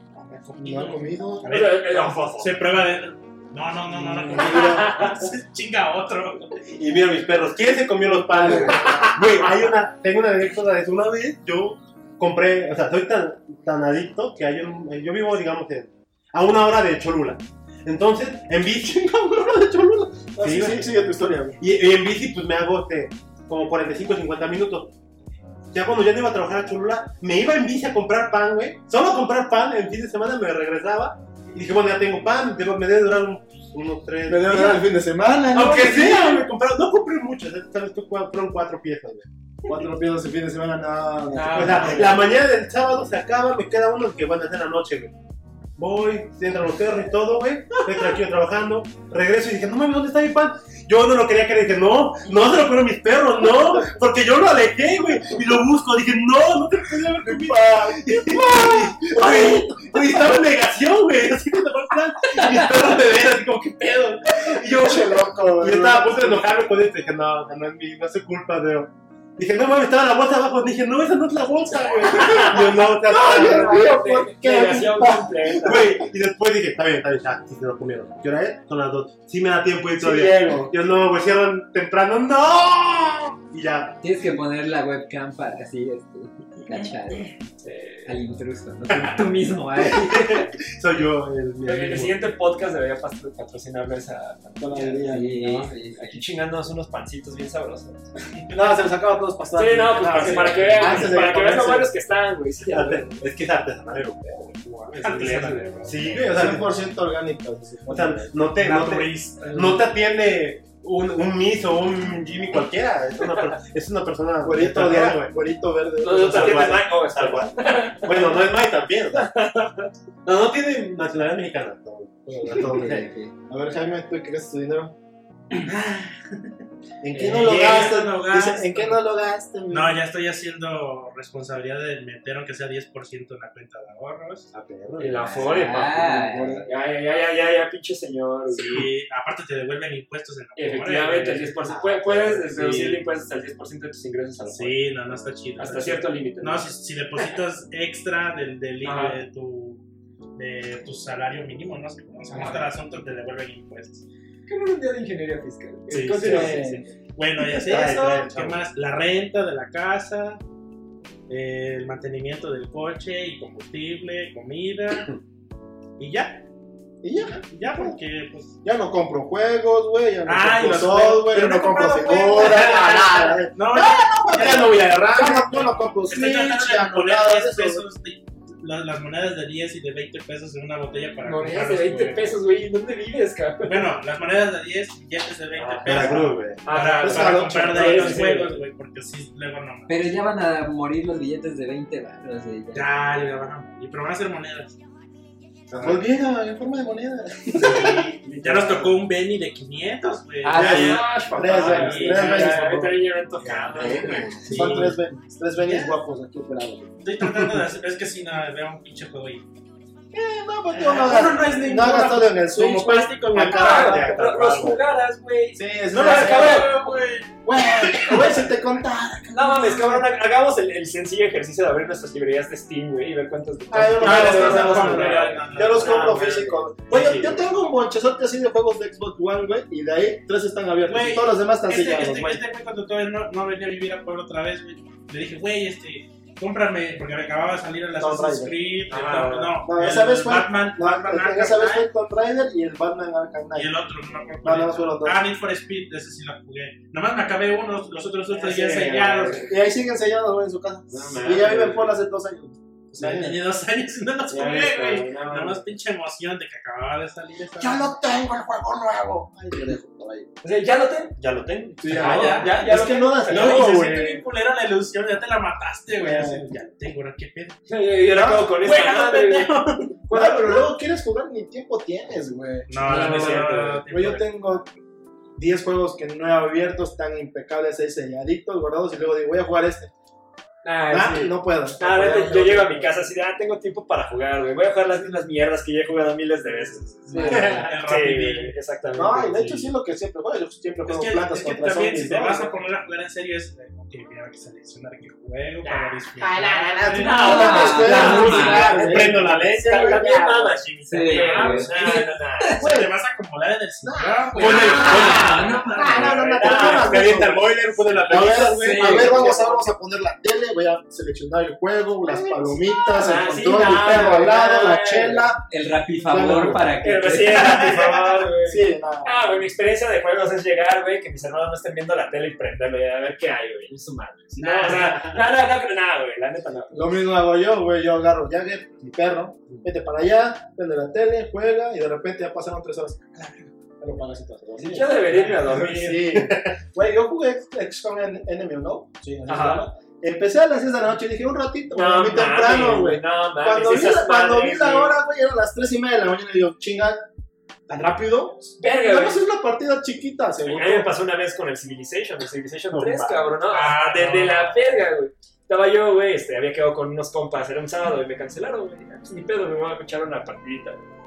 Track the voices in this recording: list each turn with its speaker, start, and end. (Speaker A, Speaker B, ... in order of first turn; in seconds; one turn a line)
Speaker A: 0.4-6.5
Speaker B: 0.5-1.6
Speaker C: 1.4-2.6
Speaker B: 4.1-4.5
Speaker D: 4.2-4.8
Speaker C: 4.3-5.2
Speaker D: 6.7-20.9
Speaker B: 8.3-9.1
Speaker B: 20.4-21.6
Speaker D: 21.6-24.9
Speaker D: 25.7-34.8
Speaker B: 34.3-36.5
Speaker D: 35.5-39.3
Speaker B: 39.6-42.1
Speaker C: 41.3-42.2
Speaker A: 41.5-42.0
Speaker D: 41.5-45.2
Speaker D: 45.8-73.9
Speaker B: 56.8-60.0
Speaker B: 64.4-66.5
Speaker C: 72.0-76.0
Speaker B: 72.0-75.8
Speaker D: 75.6-84.0
Speaker B: 80.0-80.7
Speaker E: 84.0-87.3
Speaker C: 87.6-88.1
Speaker E: 88.0-90.5
Speaker D: 88.9-89.2
Speaker D: 89.8-92.2
Speaker C: 91.6-98.2
Speaker B: 94.6-95.5
Speaker E: 95.1-96.2
Speaker B: 98.5-101.9
Speaker C: 99.5-103.4
Speaker D: 100.5-101.1
Speaker D: 102.7-104.5
Speaker C: 104.2-106.1
Speaker A: 104.9-106.1
Speaker D: 105.8-106.8
Speaker B: 106.2-109.8
Speaker D: 107.9-115.3
Speaker B: 114.4-116.9
Speaker C: 116.0-118.4
Speaker D: 116.1-119.3
Speaker C: 119.1-119.9
Speaker D: 120.2-123.1
Speaker E: 122.5-123.3
Speaker B: 123.5-125.0
Speaker A: 125.7-126.2
Speaker B: 127.0-130.0
Speaker C: 127.1-127.9
Speaker A: 127.2-129.0
Speaker A: 129.7-134.5
Speaker D: 134.5-135.4
Speaker C: 135.0-138.9
Speaker E: 135.2-136.7
Speaker A: 138.5-141.5
Speaker C: 140.6-144.8
Speaker D: 141.7-142.1
Speaker A: 142.1-143.0
Speaker A: 144.4-149.8
Speaker C: 145.6-147.3
Speaker C: 148.8-149.2
Speaker A: 150.3-154.0
Speaker C: 152.3-152.6
Speaker C: 154.5-156.8
Speaker A: 155.9-160.4
Speaker B: 156.0-156.9
Speaker D: 157.3-158.6
Speaker A: 161.3-165.1
Speaker A: 166.0-166.4
Speaker B: 167.0-168.0
Speaker A: 167.5-168.5
Speaker B: 168.6-177.8
Speaker A: 170.2-182.3
Speaker D: 173.7-175.3
Speaker C: 181.2-184.0
Speaker A: 183.6-189.9
Speaker C: 185.5-188.6
Speaker D: 185.8-186.6
Speaker B: 187.0-188.2
Speaker E: 189.9-192.9
Speaker A: 192.7-194.8
Speaker D: 195.7-196.1
Speaker B: 195.7-198.1
Speaker C: 197.6-199.0
Speaker A: 197.7-202.8
Speaker E: 200.4-201.0
Speaker C: 200.5-204.7
Speaker D: 200.6-201.0
Speaker B: 201.3-203.0
Speaker D: 203.4-204.7
Speaker A: 204.4-205.0
Speaker B: 204.5-206.9
Speaker A: 205.6-205.9
Speaker A: 207.0-209.4
Speaker B: 210.1-214.0
Speaker A: 210.7-214.2
Speaker D: 213.3-214.8
Speaker C: 213.3-217.0
Speaker B: 215.5-216.8
Speaker A: 215.9-218.4
Speaker B: 217.4-220.1
Speaker C: 219.3-227.4
Speaker B: 223.7-232.4
Speaker A: 224.0-226.2
Speaker A: 230.8-241.9
Speaker B: 237.9-238.5
Speaker C: 238.9-239.6
Speaker B: 239.6-243.7
Speaker A: 243.5-249.5
Speaker B: 244.4-245.2
Speaker C: 248.3-249.5
Speaker B: 249.3-253.4
Speaker C: 250.9-251.9
Speaker A: 252.9-257.9
Speaker C: 254.3-255.6
Speaker B: 257.6-260.3
Speaker C: 260.4-264.1
Speaker D: 261.2-262.0
Speaker B: 261.8-264.2
Speaker A: 261.9-262.6
Speaker A: 263.2-267.6
Speaker B: 266.0-266.5
Speaker C: 267.7-269.5
Speaker A: 268.2-270.3
Speaker C: 270.1-270.5
Speaker B: 270.1-274.6
Speaker A: 272.7-274.6
Speaker C: 272.8-273.9
Speaker B: 275.4-279.9
Speaker C: 280.6-289.7
Speaker B: 280.9-282.9
Speaker B: 287.1-287.7
Speaker A: 287.1-288.6
Speaker D: 287.3-287.7
Speaker B: 288.9-292.5
Speaker A: 290.8-298.4
Speaker C: 295.6-302.8
Speaker B: 296.3-300.5
Speaker E: 297.1-298.9
Speaker D: 298.2-300.5
Speaker A: 300.8-306.9
Speaker E: 300.8-302.6
Speaker B: 302.6-302.9
Speaker B: 303.8-305.2
Speaker E: 304.4-306.1
Speaker D: 304.4-309.2
Speaker C: 304.6-305.0
Speaker B: 305.7-307.5
Speaker C: 305.9-307.3
Speaker B: 308.1-315.4
Speaker C: 308.1-309.7
Speaker E: 308.4-309.3
Speaker C: 312.9-315.3
Speaker E: 315.5-317.6
Speaker B: 316.0-316.6
Speaker C: 316.8-326.9
Speaker A: 317.4-318.1
Speaker B: 318.4-319.2
Speaker A: 324.4-324.9
Speaker B: 326.7-347.1
Speaker C: 334.6-336.3
Speaker D: 336.2-336.5
Speaker C: 339.2-339.7
Speaker C: 341.7-345.0
Speaker B: 347.7-350.9
Speaker C: 348.6-349.2
Speaker C: 350.4-360.8
Speaker D: 352.7-353.4
Speaker A: 353.5-354.6